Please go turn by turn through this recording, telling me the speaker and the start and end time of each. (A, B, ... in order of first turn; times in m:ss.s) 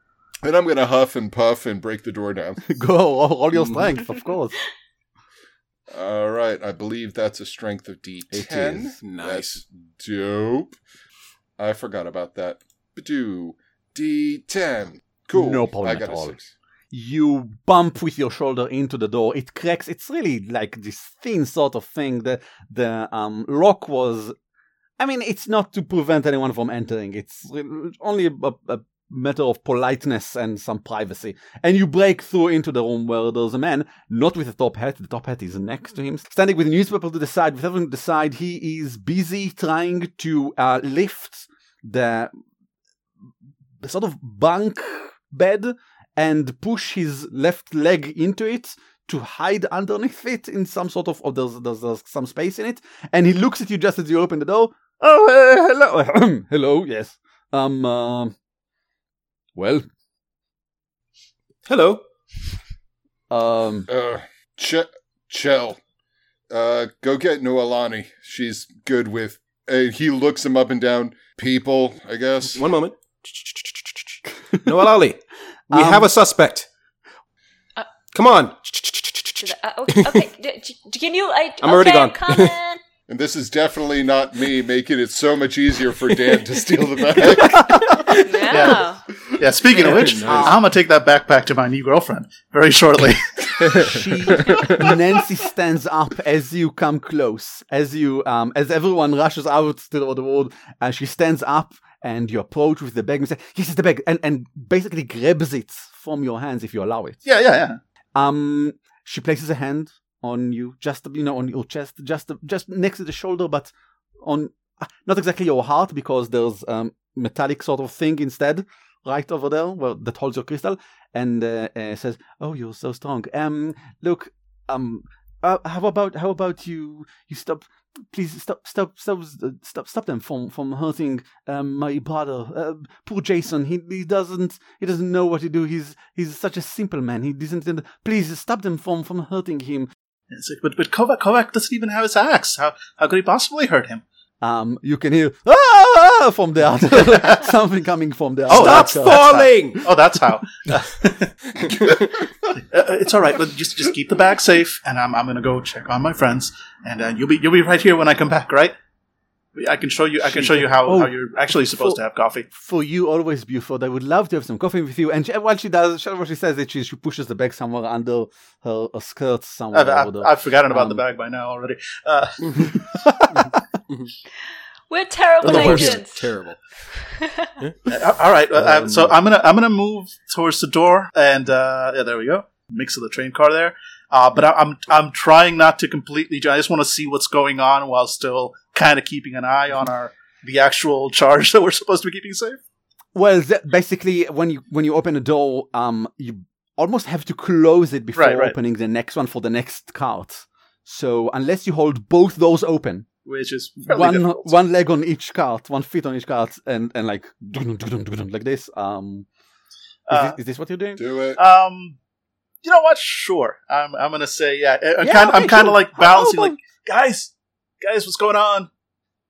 0:00.4-0:02.6 A
0:02.6-0:04.6 B
0:05.9-0:10.8 A
0:08.3-0:09.0 B
0:09.0-0:09.6 C
0:11.6-0:16.5 A
0:15.3-0:16.4 B
0:16.9-0:24.3 B
0:25.0-0:42.3 B
0:43.8-0:58.4 B
0:59.6-0:59.9 B
1:01.7-1:02.0 C
1:03.3-1:03.9 B
1:03.9-1:05.8 A
1:06.5-1:12.6 A
1:12.5-1:16.7 C
1:15.7-1:16.1 B
1:18.1-1:20.2 C
1:19.4-1:22.8 D
1:21.6-1:22.6 C
1:23.1-1:28.2 A
1:27.2-1:28.0 B
1:28.1-1:29.0 D
1:28.5-1:28.9 E
1:29.4-1:33.8 E
1:29.8-1:30.6 C
1:29.9-1:30.5 B
1:33.6-1:34.9 C
1:33.8-1:47.2 B
1:47.2-1:47.8 E
1:48.2-2:19.9 B
2:20.3-2:24.0 E
2:24.4-2:29.4 B
2:28.5-2:29.8 C
2:28.5-2:32.0 E
2:31.6-2:32.3 C
2:32.6-2:38.7 E
2:39.6-2:42.5 E
2:40.2-2:41.1 B
2:41.7-2:42.0 B
2:42.5-2:51.0 B
2:49.7-2:53.1 E
2:53.0-2:53.4 B
2:53.4-2:54.1 C
2:54.9-2:56.2 D
2:55.4-2:56.6 C
2:55.5-2:55.9 E
2:57.0-2:57.5 D
2:57.9-3:12.6 E
2:58.7-2:59.1 B
2:58.8-2:59.0 C
3:13.2-3:23.1 B
3:18.2-3:18.6 E
3:23.2-3:24.5 E
3:23.9-3:29.3 B
3:30.1-3:30.4 E
3:30.1-3:31.0 B
3:31.0-3:31.4 A
3:31.4-3:32.0 E
3:32.6-3:38.7 E
3:35.0-3:36.6 B